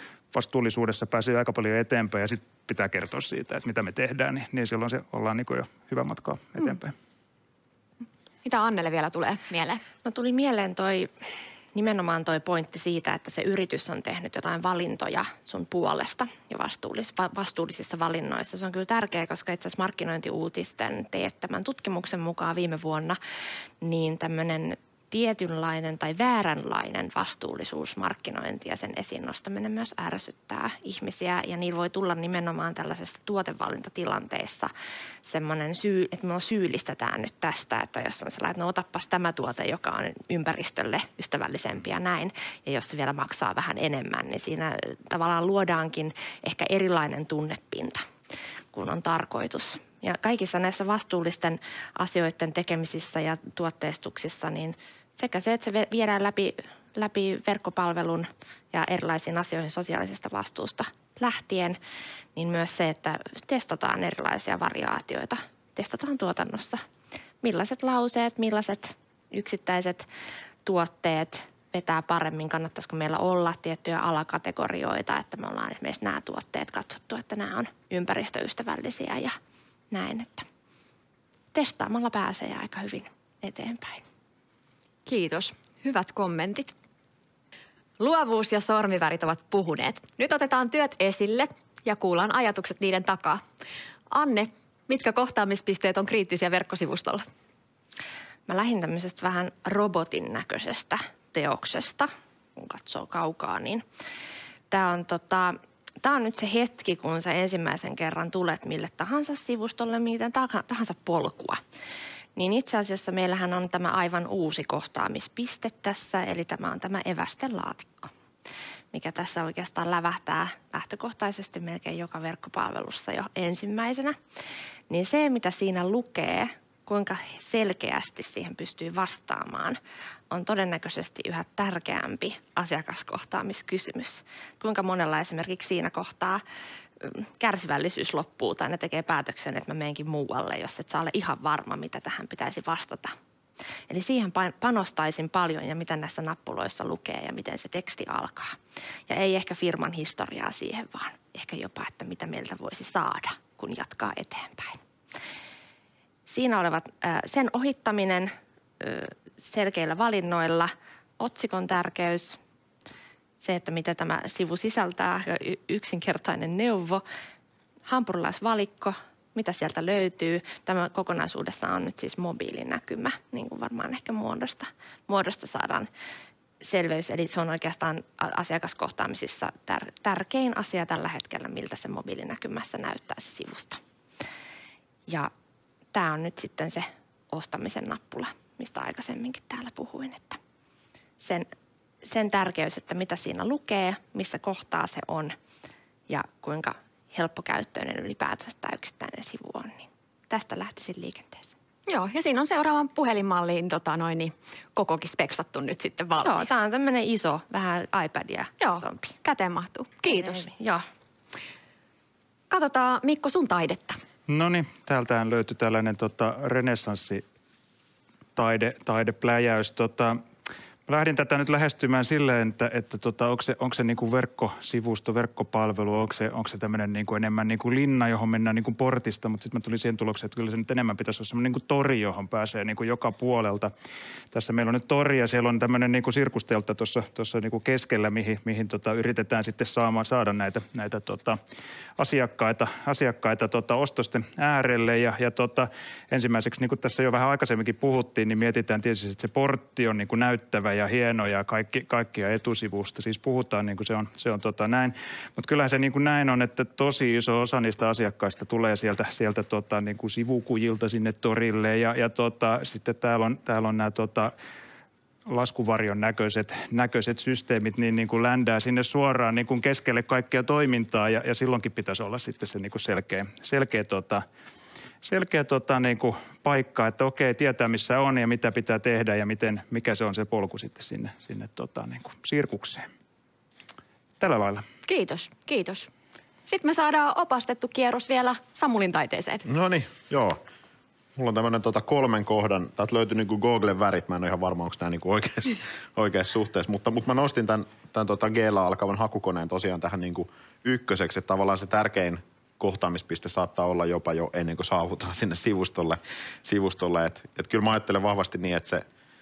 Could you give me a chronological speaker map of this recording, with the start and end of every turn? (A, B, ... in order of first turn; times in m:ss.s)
0:00.3-0:06.9 A
0:08.4-0:09.8 B
0:10.0-0:11.1 C
0:11.7-0:23.2 C
0:23.8-0:34.7 C
0:35.3-0:48.0 C
0:48.7-1:01.8 C
1:02.4-1:06.8 C
1:07.4-1:10.1 C
1:10.6-1:19.4 C
1:19.9-1:20.5 C
1:21.5-1:24.0 C
1:25.1-1:26.7 B
1:28.0-1:33.4 B
1:34.1-1:37.2 B
1:38.5-1:43.8 C
1:44.7-1:51.6 C
1:52.4-1:58.1 C
1:58.9-2:04.2 C
2:04.9-2:09.8 C
2:10.3-2:16.4 C
2:17.0-2:23.1 C
2:23.9-2:34.8 C
2:36.3-2:42.4 C
2:43.4-2:47.0 C
2:47.9-2:55.9 C
2:56.6-3:03.8 C
3:05.9-3:10.4 C
3:11.2-3:11.5 C
3:12.0-3:15.4 C
3:16.1-3:21.5 C
3:21.9-3:26.5 B
3:26.2-3:29.2 C
3:28.6-3:30.4 B
3:30.2-3:30.8 C
3:32.5-3:34.0 B
3:34.3-3:37.2 A
3:38.4-3:40.2 A
3:40.9-3:53.7 A
3:54.3-4:01.4 A
4:02.0-4:24.3 A
4:25.3-4:34.2 A
4:35.0-4:42.9 A
4:44.2-4:44.6 A
4:44.9-4:45.9 B
4:46.5-4:49.5 B
4:49.5-4:50.4 D
4:51.2-5:08.8 D